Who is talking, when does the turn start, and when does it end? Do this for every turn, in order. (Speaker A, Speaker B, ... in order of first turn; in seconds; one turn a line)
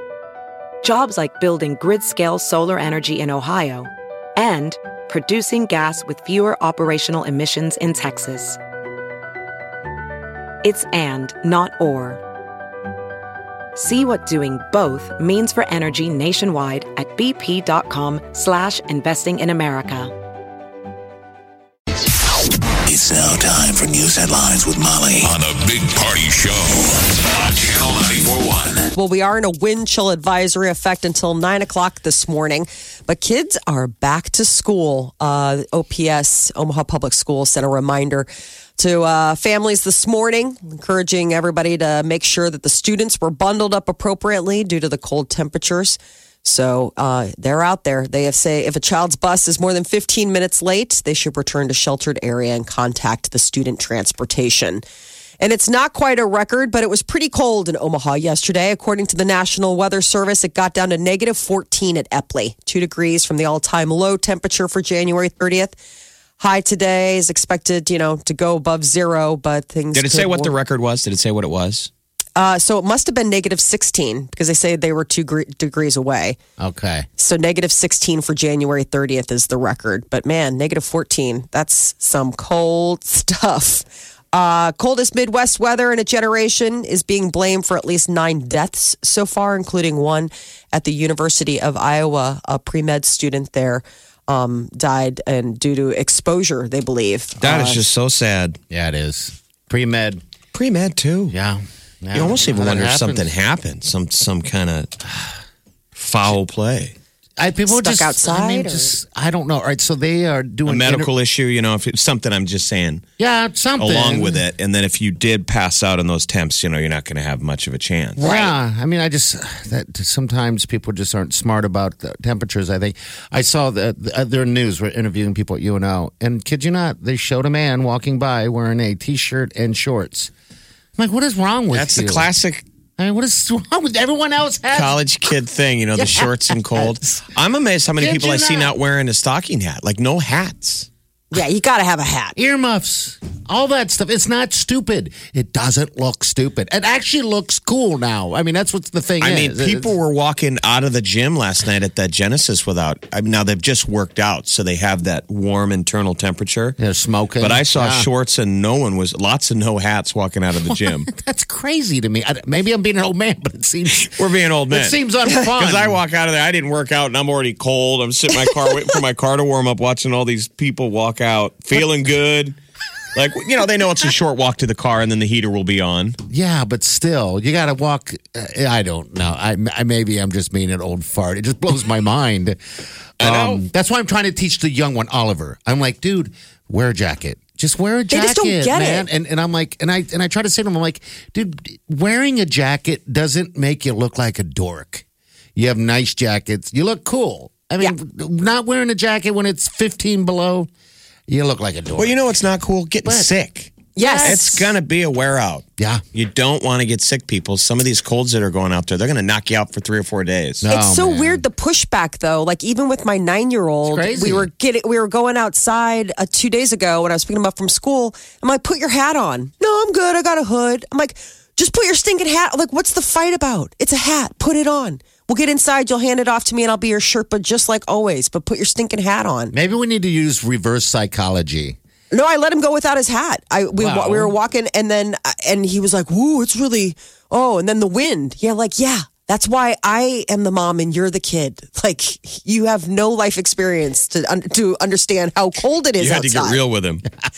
Speaker A: 0.8-8.6
Speaker A: 10.6-12.2
Speaker A: 13.8-20.1
Speaker B: 22.9-28.9
Speaker C: 28.9-54.8
Speaker C: 55.4-65.8
Speaker C: 66.4-70.5
Speaker D: 69.9-71.9
Speaker C: 72.3-76.4
Speaker E: 76.6-77.0
Speaker C: 77.2-97.8
Speaker D: 97.4-98.6
Speaker E: 98.7-100.2
Speaker D: 100.5-101.3
Speaker E: 101.3-103.3
Speaker D: 102.1-104.9
Speaker D: 106.0-106.9
Speaker E: 107.4-111.1
Speaker C: 107.7-108.9
Speaker D: 110.7-113.0
Speaker E: 113.2-114.4
Speaker D: 113.8-118.2
Speaker E: 118.2-130.3
Speaker C: 118.2-118.5
Speaker E: 131.0-132.3
Speaker D: 131.7-132.6
Speaker E: 133.0-135.0
Speaker D: 134.7-140.9
Speaker E: 135.9-137.0
Speaker E: 138.0-138.7
Speaker C: 141.3-142.3
Speaker E: 142.3-149.9
Speaker D: 149.2-156.8
Speaker E: 156.8-158.1
Speaker D: 157.4-161.1
Speaker E: 161.1-164.1
Speaker D: 164.0-172.6
Speaker E: 164.7-166.0
Speaker D: 173.2-176.2
Speaker E: 176.3-182.6
Speaker E: 183.2-195.0
Speaker D: 183.2-183.6
Speaker C: 188.1-189.1
Speaker E: 195.6-200.7
Speaker E: 201.3-202.2
Speaker D: 202.0-210.7
Speaker C: 203.9-204.6
Speaker E: 204.0-204.4
Speaker E: 205.8-206.0
Speaker E: 210.6-211.4
Speaker C: 210.7-229.5
Speaker E: 213.8-214.5
Speaker E: 229.5-231.8
Speaker C: 232.1-246.6
Speaker E: 233.8-234.3
Speaker D: 246.0-247.1